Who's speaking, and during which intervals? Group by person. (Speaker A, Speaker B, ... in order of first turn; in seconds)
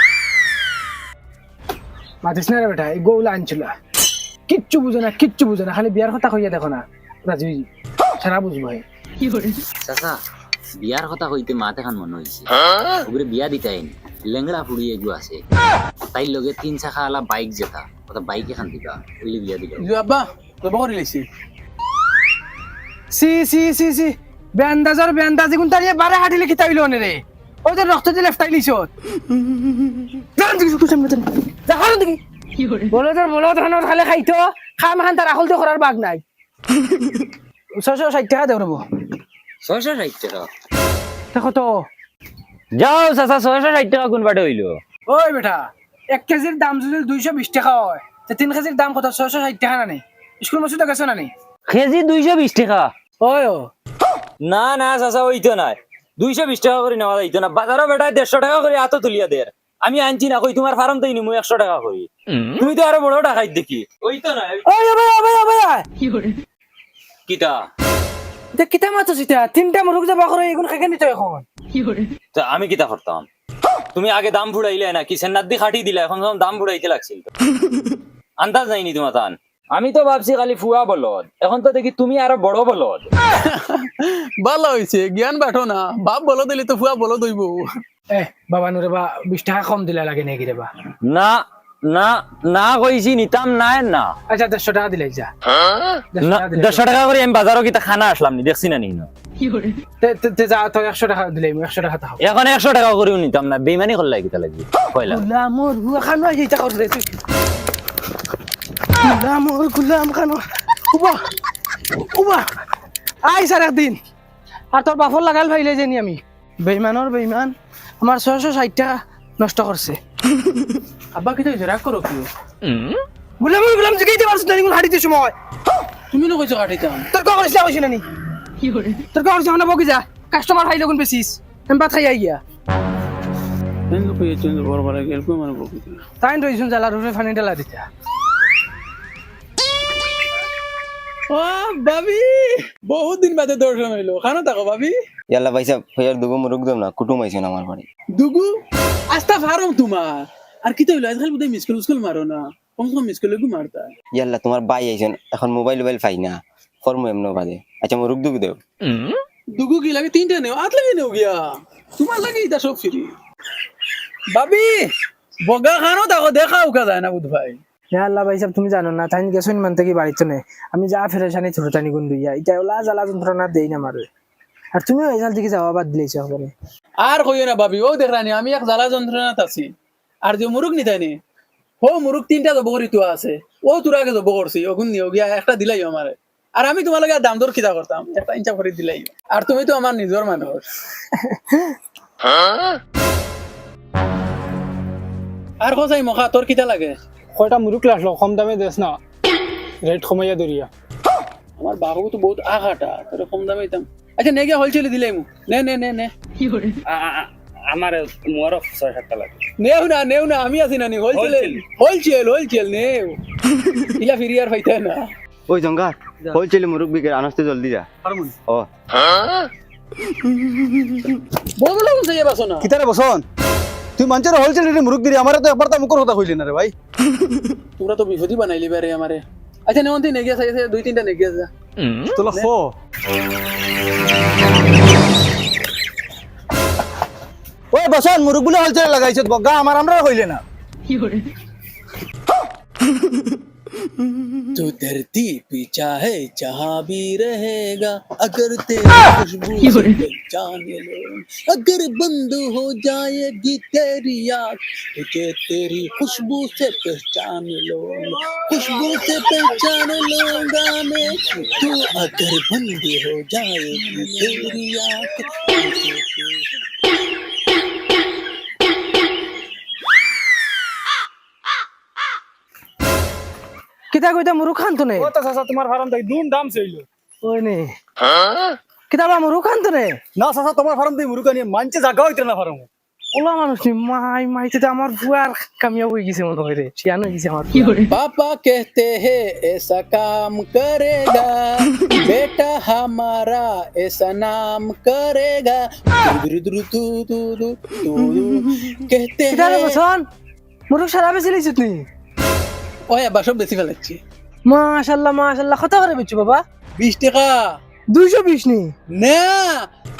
Speaker A: 2.2-3.7, 4.5-7.7, 8.2-8.8, 23.1-28.9, 30.4-32.2, 32.9-36.2, 37.8-38.8, 41.3-41.9, 45.1-51.3, 53.2-53.7, 64.7-65.8, 68.5-71.4, 88.1-90.7, 94.3-95.3, 96.1-96.8, 100.0-102.2, 105.1-107.1, 109.0-111.2, 111.9-112.5, 113.2-114.0, 114.7-120.0, 123.4-125.3, 127.1-128.0, 129.1-132.4, 136.2-137.8, 167.9-174.1, 174.7-176.5, 191.1-191.7, 197.4-199.0, 199.8-200.7, 273.9-275.1, 277.2-277.7, 278.9-280.0, 283.1-287.8, 299.3-300.0, 300.7-301.9, 304.4-306.4, 307.9-308.7
Speaker B: 9.8-10.2, 10.8-15.4, 16.1-19.9, 39.6-40.5, 42.8-44.8, 51.7-52.9, 54.4-64.7, 67.3-67.6, 72.3-73.2, 73.9-77.3, 78.4-83.1, 91.1-94.1, 95.6-99.1, 102.2-105.2, 206.9-209.4, 211.1-211.6
Speaker C: 19.8-21.3, 83.4-87.7, 121.1-122.3, 126.1-127.0, 133.9-136.0, 141.3-144.9, 148.1-148.6, 149.1-153.9, 159.6-163.1, 164.3-164.9, 165.4-167.6, 177.0-179.7, 180.2-181.1, 181.8-190.6, 195.6-197.0, 201.6-206.1, 209.6-213.2, 213.9-215.1, 221.6-222.7, 227.8-231.5, 232.3-232.5, 244.5-266.5, 287.9-299.8, 302.9-304.0, 306.8-307.5, 308.9-309.7
Speaker D: 145.3-147.8, 154.2-158.6, 215.5-217.8
Speaker E: 218.0-218.3, 222.6-223.2, 224.0-226.7, 231.8-232.7, 237.7-240.4, 275.0-276.9, 280.1-282.7